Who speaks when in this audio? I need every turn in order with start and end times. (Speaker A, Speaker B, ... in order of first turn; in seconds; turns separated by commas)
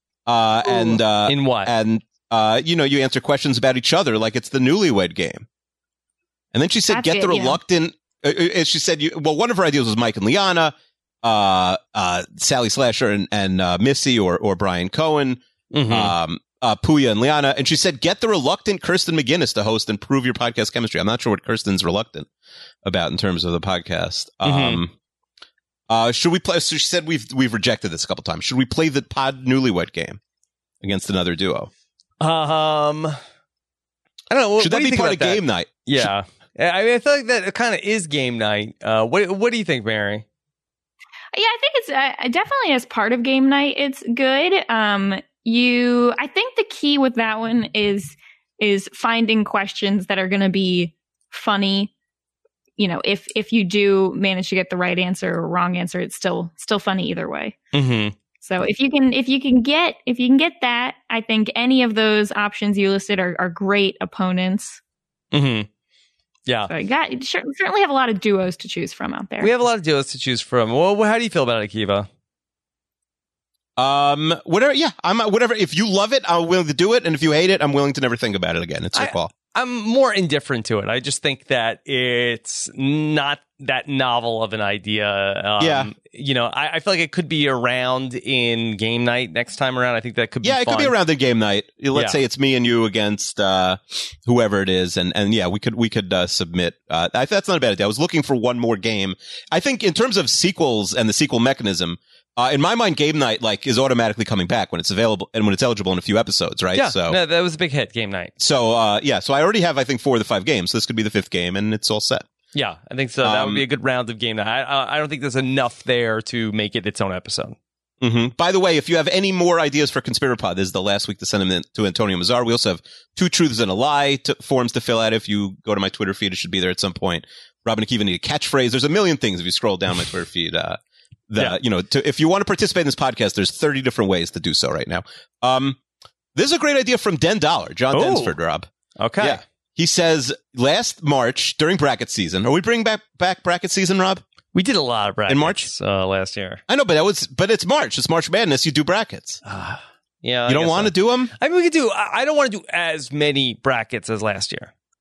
Speaker A: 0.3-5.5, Speaker B: 0.7-1.7, Speaker A: 6.5-22.3, Speaker C: 6.9-7.6, Speaker B: 15.7-16.1, Speaker A: 22.8-24.9, Speaker B: 24.4-24.8, Speaker A: 25.9-30.2, Speaker A: 30.8-31.7, Speaker B: 32.2-33.2, Speaker B: 34.3-40.2, Speaker A: 34.6-36.1, Speaker C: 41.3-51.9, Speaker C: 52.8-57.6, Speaker B: 57.7-58.1, Speaker C: 58.4-64.8, Speaker B: 65.3-65.7, Speaker C: 66.7-69.5, Speaker B: 69.4-72.1, Speaker A: 73.8-79.3, Speaker B: 79.0-90.9, Speaker A: 85.6-85.9, Speaker A: 90.4-107.2, Speaker B: 91.9-92.2, Speaker B: 106.8-108.3, Speaker A: 108.4-112.3, Speaker B: 112.5-117.6, Speaker A: 113.2-113.7, Speaker A: 118.0-135.8, Speaker A: 136.3-138.7, Speaker B: 137.9-138.3, Speaker B: 139.0-139.4, Speaker A: 139.2-144.2, Speaker B: 144.5-146.6, Speaker A: 145.3-145.7, Speaker A: 146.7-149.4, Speaker B: 149.4-154.7, Speaker A: 150.5-151.3